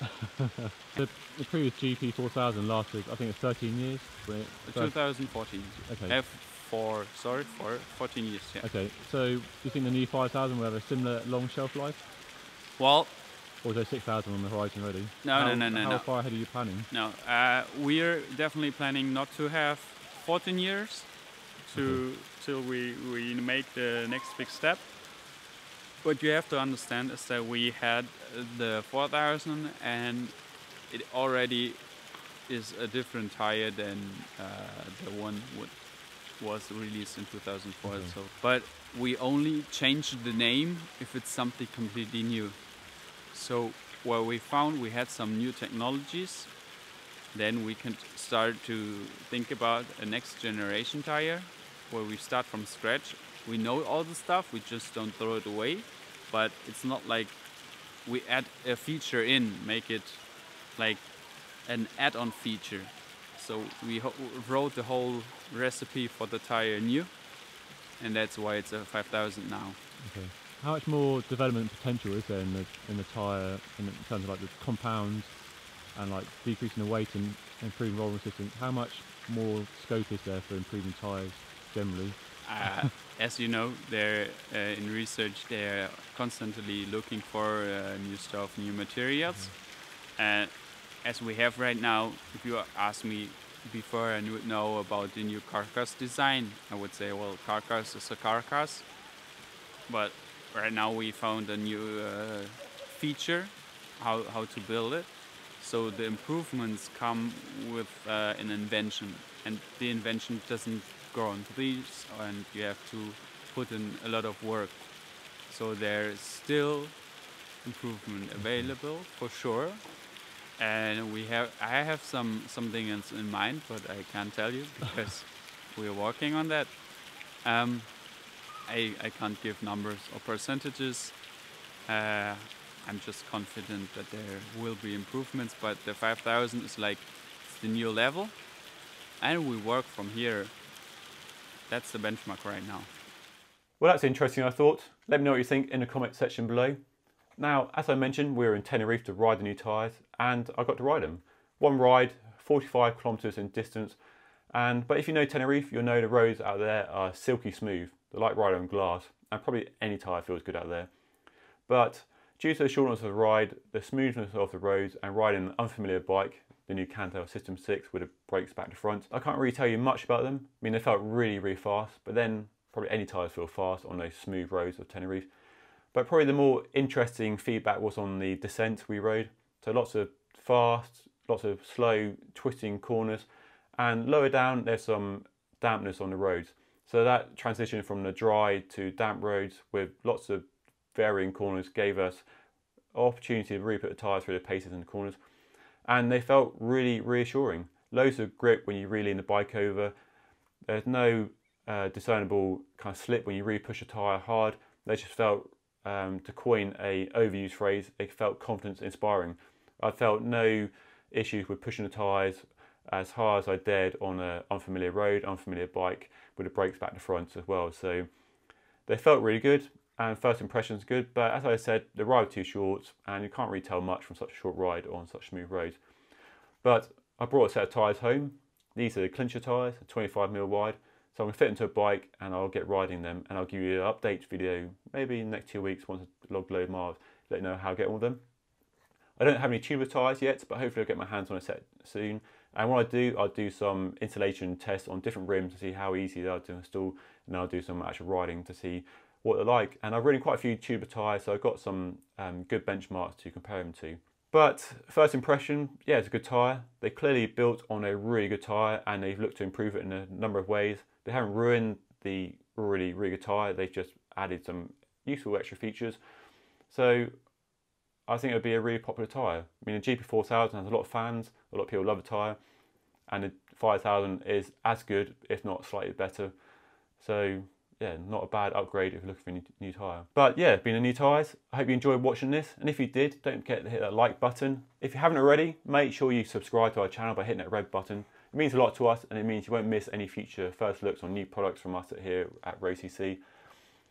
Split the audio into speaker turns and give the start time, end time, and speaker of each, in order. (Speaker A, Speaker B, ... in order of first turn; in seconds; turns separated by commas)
Speaker A: 0.9-6.2, Speaker B: 4.6-8.7, Speaker A: 8.6-12.0, Speaker B: 12.8-13.2, Speaker A: 13.6-16.9, Speaker B: 15.2-24.9, Speaker A: 21.7-22.0, Speaker B: 26.0-46.6, Speaker A: 37.8-38.1, Speaker B: 47.3-69.8, Speaker A: 70.0-82.6, Speaker B: 82.4-99.0, Speaker B: 99.9-131.3, Speaker B: 131.8-138.6, Speaker B: 139.2-140.6, Speaker B: 141.7-142.9, Speaker C: 143.8-146.8, Speaker C: 147.4-154.0, Speaker C: 154.5-160.9, Speaker C: 161.7-175.3, Speaker C: 175.9-183.3, Speaker C: 183.8-192.2, Speaker C: 192.9-195.2, Speaker C: 195.8-199.9, Speaker C: 200.7-218.1, Speaker C: 218.9-225.8, Speaker C: 226.6-238.2, Speaker C: 239.2-266.0, Speaker C: 266.7-267.1, Speaker C: 268.1-272.4, Speaker C: 273.1-276.3, Speaker C: 277.0-293.2